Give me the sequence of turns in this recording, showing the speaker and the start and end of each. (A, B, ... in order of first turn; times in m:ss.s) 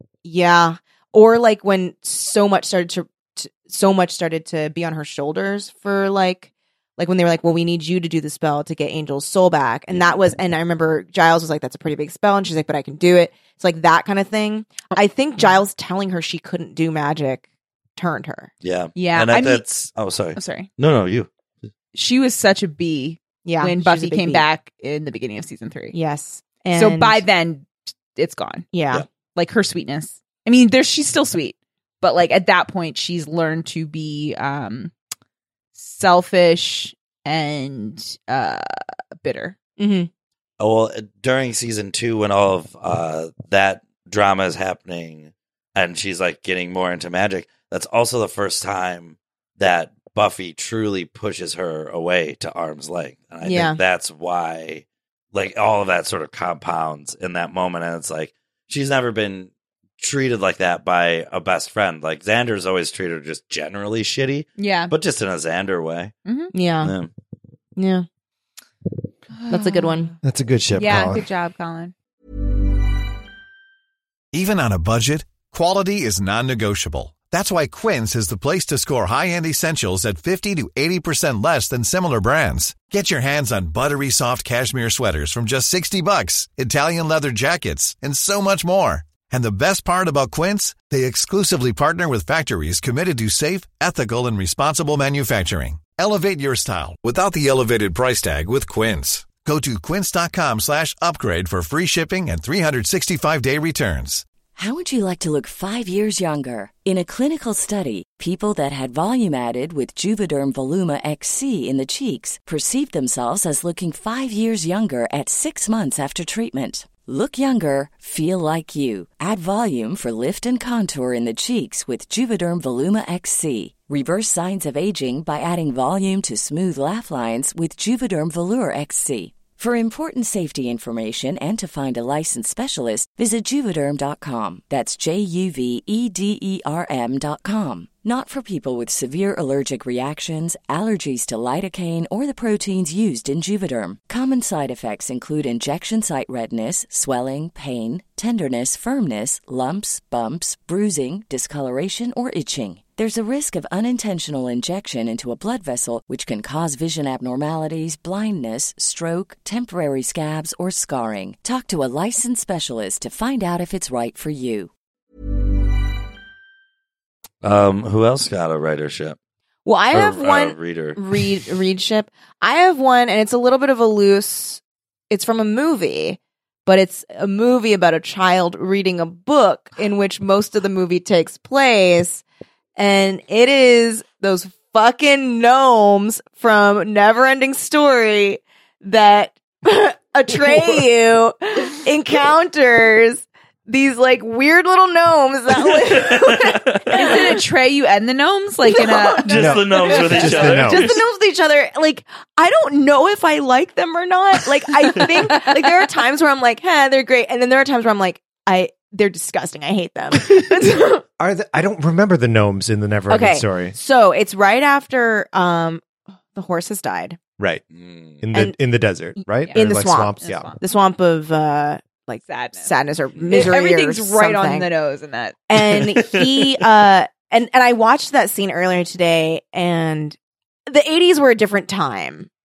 0:00.2-0:17.4 A
0:09.9-0:10.2 B
0:18.0-0:18.5 A
0:18.6-0:21.3 B
0:19.0-0:19.6 C
0:20.4-0:20.7 C
0:21.9-0:26.0 C
0:23.4-0:24.4 A
0:25.9-0:27.2 A
0:26.7-0:28.7 C
0:28.7-0:29.0 A
0:29.4-0:34.9 C
0:35.8-0:39.6 C
0:39.8-0:40.1 A
0:40.6-1:06.1 B
0:53.4-0:53.8 A
1:04.6-1:04.9 C
1:06.2-1:06.5 C
1:06.5-1:06.9 A
1:06.8-1:07.1 B
1:07.8-1:08.0 A
1:09.3-1:10.0 C
1:09.5-1:10.1 A
1:10.2-1:11.2 D
1:10.7-1:11.9 C
1:14.3-1:44.3 E
1:44.6-2:44.7 F
2:47.4-2:49.2 B
2:49.6-3:02.2 A
2:49.9-2:51.2 B
3:02.8-3:17.4 A
3:15.5-3:17.1 B
3:16.9-3:19.5 C
3:18.7-3:31.0 A
3:19.2-3:21.0 B
3:19.3-3:21.0 D
3:31.2-3:33.8 D
3:33.1-3:37.2 A
3:37.4-3:37.6 D
3:37.7-3:38.2 B
3:38.2-3:40.5 D
3:39.4-3:40.6 C
3:39.5-3:44.7 A
3:42.3-3:42.7 C
3:43.3-3:45.4 C
3:45.5-3:50.2 A
3:45.6-3:46.6 B
3:50.7-3:52.3 A